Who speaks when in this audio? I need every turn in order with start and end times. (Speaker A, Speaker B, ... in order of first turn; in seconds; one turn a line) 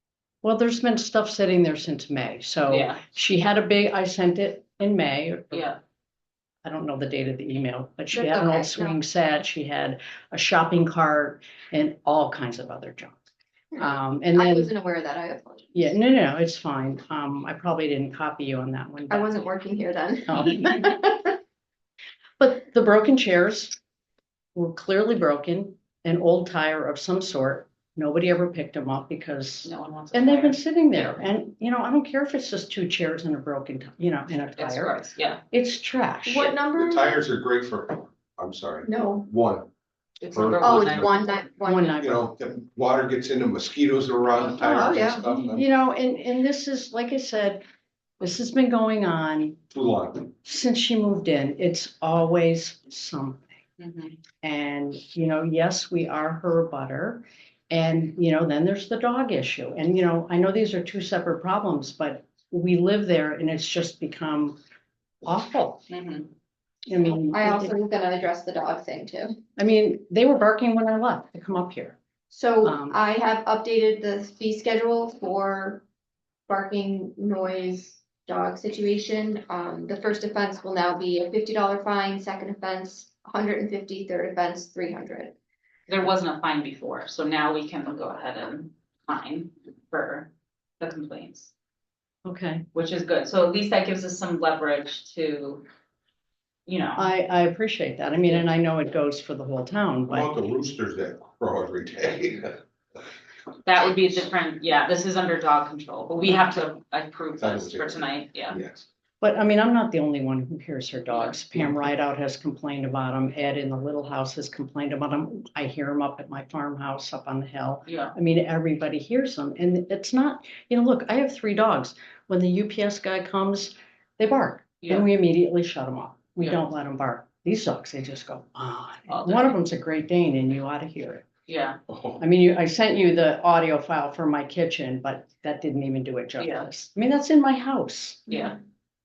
Speaker A: 0.4-5.7
Speaker B: 2.7-3.0
Speaker B: 5.5-5.8
Speaker A: 6.6-13.2
Speaker C: 8.1-8.9
Speaker A: 13.8-14.7
Speaker C: 14.3-15.9
Speaker A: 15.7-19.3
Speaker C: 19.1-21.3
Speaker A: 20.3-20.9
Speaker A: 22.4-23.8
Speaker A: 24.5-36.5
Speaker B: 29.6-31.2
Speaker B: 34.5-35.4
Speaker C: 36.2-37.2
Speaker D: 36.7-39.7
Speaker C: 38.8-39.3
Speaker B: 40.2-41.3
Speaker D: 40.3-41.3
Speaker C: 40.6-41.9
Speaker A: 41.6-42.3
Speaker D: 42.0-45.6
Speaker C: 44.6-45.2
Speaker A: 45.5-47.6
Speaker A: 48.2-49.6
Speaker D: 49.7-50.3
Speaker A: 50.4-53.5
Speaker B: 53.8-54.1
Speaker A: 54.4-64.6
Speaker A: 65.2-65.8
Speaker B: 65.9-66.3
Speaker A: 66.9-67.7
Speaker C: 67.3-69.4
Speaker A: 69.6-72.0
Speaker C: 72.3-75.8
Speaker A: 72.6-73.0
Speaker C: 76.5-85.3
Speaker B: 85.9-90.3
Speaker B: 90.8-91.5
Speaker A: 92.2-92.7
Speaker B: 92.7-95.6
Speaker B: 96.7-97.1
Speaker A: 97.0-100.3
Speaker D: 100.1-102.6
Speaker B: 103.6-108.6
Speaker D: 107.4-108.8
Speaker A: 109.2-131.2
Speaker B: 111.1-111.4
Speaker B: 117.9-118.1
Speaker B: 124.8-125.1
Speaker B: 129.1-129.5
Speaker B: 131.5-131.8
Speaker D: 131.9-132.2
Speaker A: 132.2-138.5
Speaker B: 136.4-136.7
Speaker B: 138.3-138.6